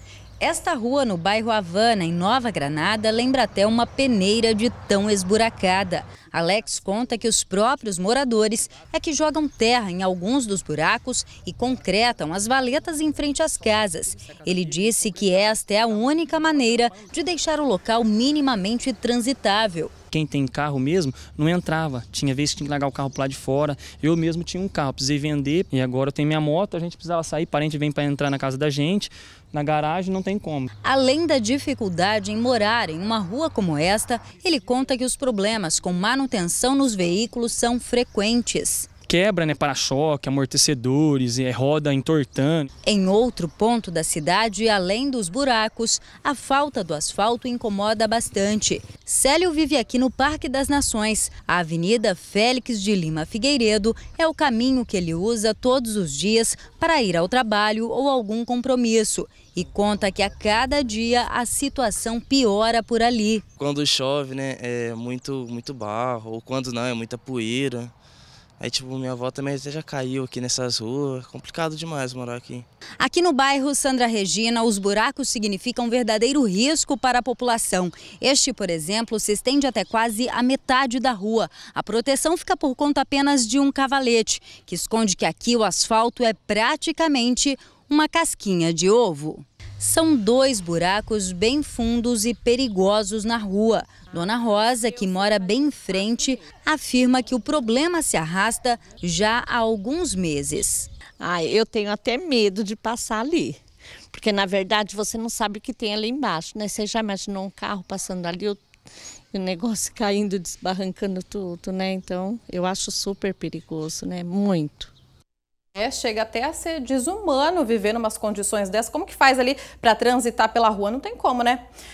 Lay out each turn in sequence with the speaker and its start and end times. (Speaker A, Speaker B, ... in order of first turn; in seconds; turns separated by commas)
Speaker A: 0.4-19.9, Speaker B: 20.1-30.7, Speaker A: 30.9-38.9, Speaker B: 39.1-42.7, Speaker A: 42.9-63.4, Speaker C: 63.6-67.9, Speaker C: 68.6-72.7, Speaker A: 73.0-100.9, Speaker D: 101.2-103.6, Speaker D: 104.1-108.6, Speaker D: 109.3-114.9, Speaker E: 115.8-121.6